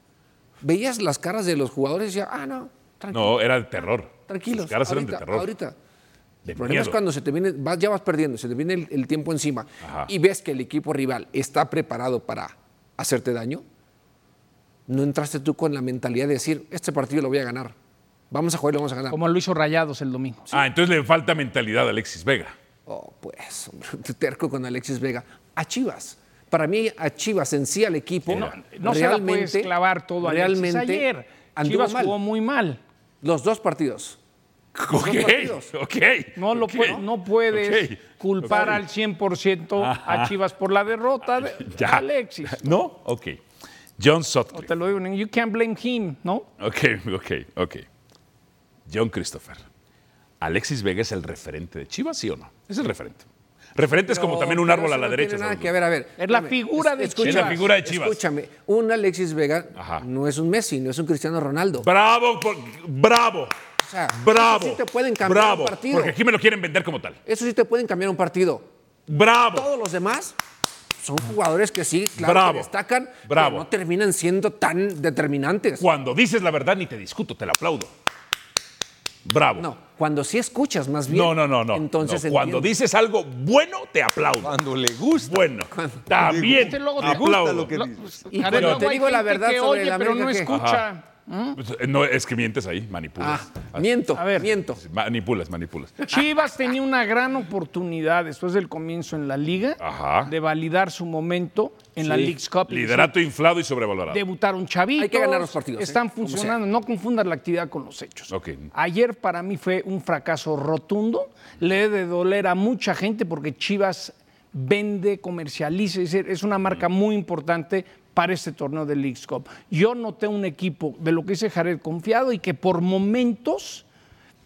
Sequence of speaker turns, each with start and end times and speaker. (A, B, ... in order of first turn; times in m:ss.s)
0:00.6-0:03.4 A
0:03.1-0:05.5 B
0:04.3-0:05.7 A
0:06.4-0:07.0 B
0:06.6-0:13.6 A
0:09.8-0:10.1 B
0:14.9-0:17.7 A
0:18.3-0:19.2 A
0:19.1-0:20.6 C
0:20.5-0:22.5 B
0:22.8-0:32.2 A
0:28.3-0:28.5 B
0:28.3-0:32.8 C
0:33.2-0:34.2 A
0:34.7-0:38.8 B
0:34.9-0:35.7 A
0:36.4-0:42.7 C
0:38.5-0:38.8 A
0:39.8-0:40.3 B
0:41.4-0:43.4 B
0:44.0-0:44.7 B
0:44.5-0:46.5 C
0:46.6-0:47.8 B
0:48.9-0:49.6 B
0:50.4-0:55.7 B
0:54.1-1:01.9 A
0:56.2-0:57.6 C
0:57.2-0:58.2 B
0:59.7-1:00.0 B
1:01.8-1:03.5 B
1:03.8-1:06.1 A
1:04.1-1:07.2 B
1:07.2-1:08.7 A
1:09.1-1:09.7 B
1:09.5-1:10.4 A
1:11.0-1:15.8 A
1:12.2-1:12.7 B
1:13.2-1:13.6 B
1:15.8-1:17.9 B
1:19.2-1:19.7 B
1:19.6-1:22.7 A
1:21.1-1:24.5 B
1:24.4-1:25.4 D
1:25.2-1:27.8 B
1:25.7-1:26.0 A
1:26.2-1:28.3 D
1:26.5-1:31.6 C
1:28.3-1:30.5 A
1:28.5-1:28.8 B
1:30.5-1:30.8 B
1:31.6-1:33.8 B
1:33.2-1:34.8 A
1:34.1-1:34.5 C
1:34.7-1:36.1 B
1:36.1-1:43.1 C
1:39.8-1:40.3 B
1:42.0-1:42.3 A
1:42.7-1:44.2 B
1:44.1-2:03.8 C
1:45.0-1:46.6 A
1:48.3-1:48.7 B